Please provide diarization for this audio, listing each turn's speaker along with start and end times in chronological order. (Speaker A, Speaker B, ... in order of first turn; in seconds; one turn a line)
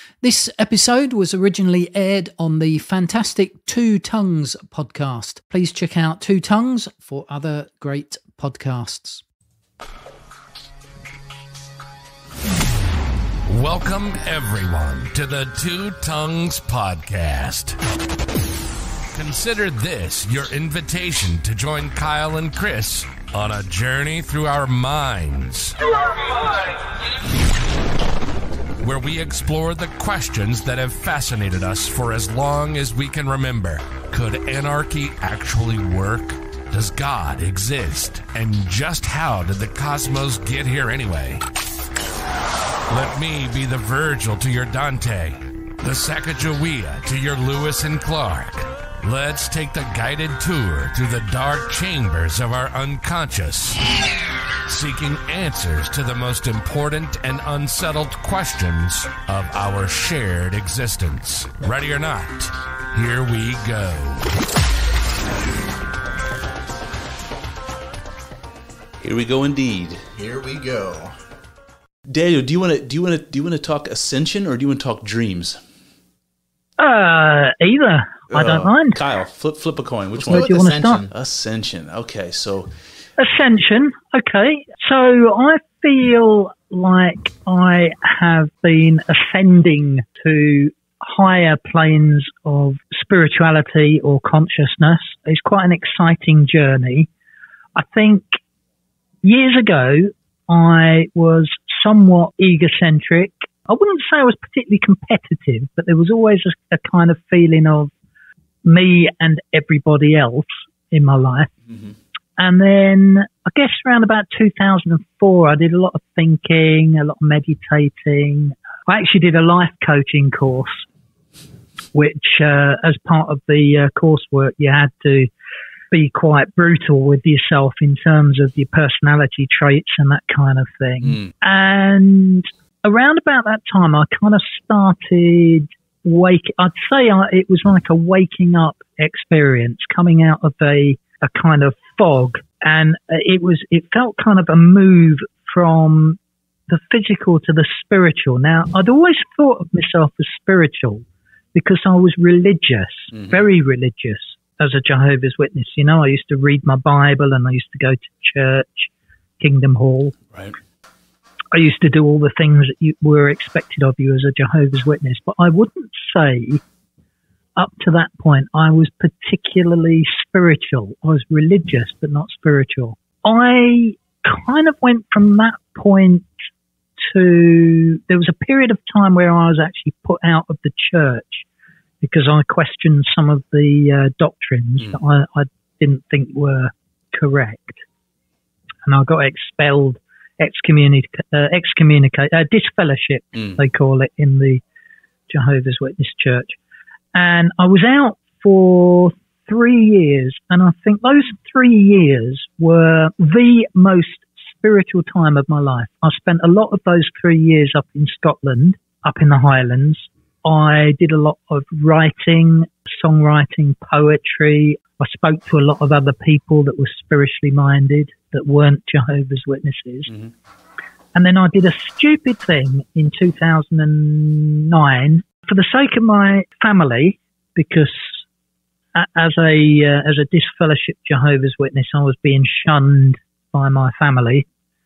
Speaker A: 0.2-9.2
Speaker B: 13.5-17.8
Speaker B: 19.1-25.8
Speaker B: 28.8-41.4
Speaker B: 42.9-53.9
Speaker B: 54.7-64.3
Speaker C: 69.0-70.0
Speaker D: 70.2-71.1
Speaker C: 72.1-75.6
Speaker A: 76.8-79.0
Speaker C: 78.3-80.5
Speaker D: 80.2-81.1
Speaker A: 80.3-81.0
Speaker C: 81.1-82.7
Speaker A: 83.2-97.1
Speaker A: 97.8-98.4
Speaker A: 99.2-107.9
Speaker A: 108.6-111.5
Speaker A: 112.4-120.8
Speaker A: 121.9-125.3
Speaker A: 125.9-160.2
Speaker C: 131.0-131.3
Speaker A: 161.5-166.6
Speaker A: 167.6-176.3
Speaker A: 177.1-181.4
Speaker A: 182.0-187.8
Speaker A: 188.8-194.6
Speaker C: 193.3-193.6
Speaker A: 195.3-196.6
Speaker A: 197.1-220.1
Speaker A: 221.1-228.2
Speaker A: 228.9-234.4